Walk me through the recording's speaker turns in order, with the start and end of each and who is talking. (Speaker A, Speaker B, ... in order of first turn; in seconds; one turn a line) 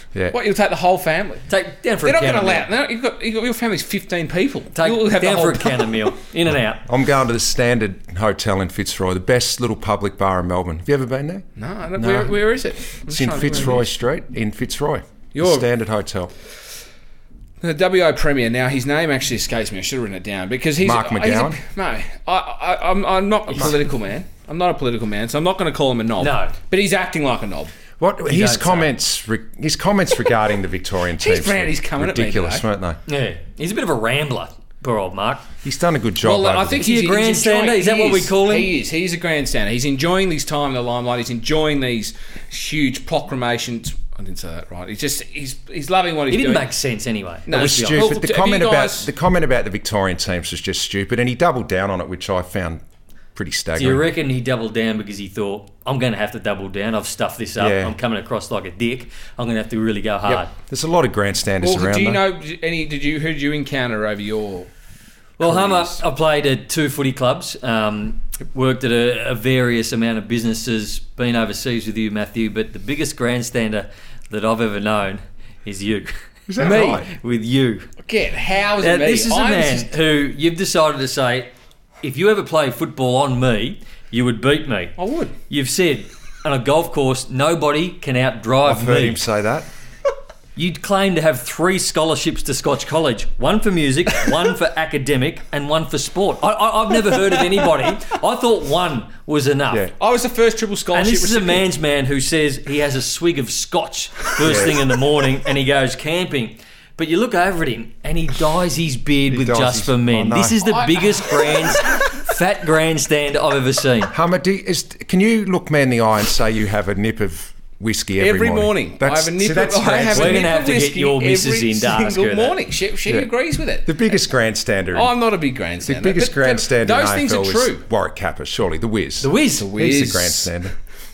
Speaker A: 0.3-1.5
Speaker B: 1.5-2.7
Speaker A: 2.0-6.1
Speaker B: 4.7-6.8
Speaker C: 6.9-12.4
Speaker A: 11.6-13.9
Speaker C: 13.0-16.3
Speaker A: 15.3-15.7
Speaker A: 17.6-27.7
Speaker C: 20.8-21.6
Speaker B: 26.2-26.5
Speaker C: 28.0-33.0
Speaker B: 28.3-28.9
Speaker A: 31.2-32.6
Speaker B: 33.1-35.5
Speaker C: 35.6-36.8
Speaker A: 36.2-46.7
Speaker B: 36.8-38.7
Speaker B: 46.3-48.0
Speaker A: 47.5-49.1
Speaker C: 47.5-52.8
Speaker C: 53.3-54.0
Speaker B: 53.8-60.5
Speaker C: 57.6-57.9
Speaker C: 60.7-62.2
Speaker A: 61.6-64.7
Speaker B: 65.4-77.9
Speaker A: 65.5-66.0
Speaker C: 76.5-77.1
Speaker A: 76.6-77.0
Speaker A: 78.0-79.9
Speaker B: 78.8-81.5
Speaker B: 82.0-85.0
Speaker A: 85.0-85.3
Speaker B: 85.5-89.2
Speaker C: 88.6-89.7
Speaker B: 90.5-99.9
Speaker A: 97.3-97.6
Speaker A: 100.0-101.6
Speaker B: 100.9-114.1
Speaker C: 104.4-104.8
Speaker C: 109.3-110.6
Speaker A: 110.6-112.0
Speaker C: 114.1-120.5
Speaker A: 118.2-124.0
Speaker B: 120.1-122.6
Speaker C: 123.8-125.1
Speaker A: 124.9-127.8
Speaker C: 125.8-130.7
Speaker B: 129.2-129.7
Speaker A: 129.5-130.5